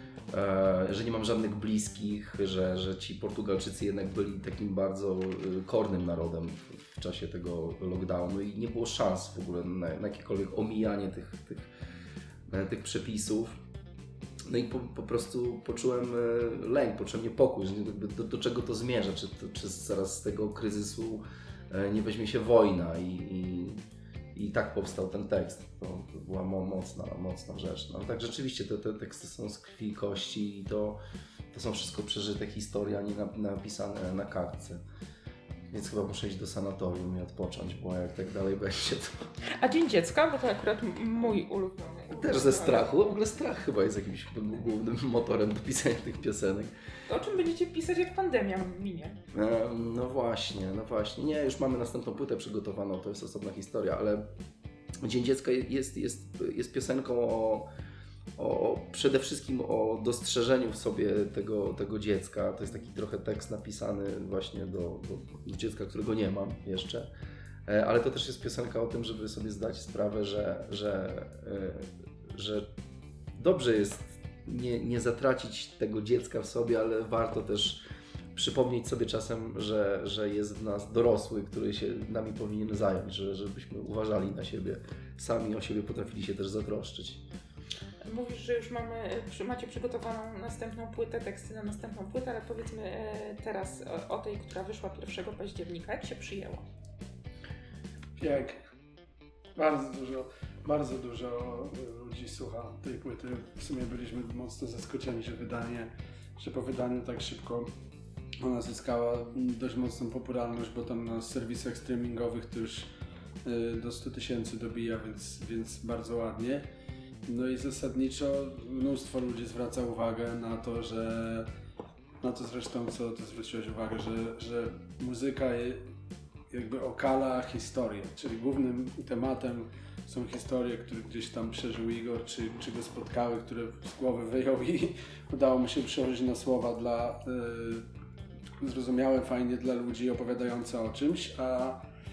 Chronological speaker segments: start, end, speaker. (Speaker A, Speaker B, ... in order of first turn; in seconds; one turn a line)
Speaker A: 0.3-11.7
Speaker A: 12.5-13.5
Speaker A: 14.5-23.8
Speaker A: 24.3-31.0
Speaker A: 31.5-34.8
Speaker A: 35.7-39.2
Speaker B: 39.6-42.9
Speaker A: 42.1-46.7
Speaker B: 47.1-49.2
Speaker A: 49.3-54.3
Speaker A: 55.0-57.7
Speaker A: 58.4-67.1
Speaker A: 67.7-72.7
Speaker A: 73.4-77.8
Speaker A: 78.3-87.2
Speaker B: 88.0-96.6
Speaker C: 98.2-98.6
Speaker C: 99.5-107.7
Speaker C: 108.4-112.9
Speaker C: 113.4-116.6
Speaker C: 117.2-121.5
Speaker C: 122.2-125.8
Speaker C: 126.5-137.8
Speaker C: 138.6-141.8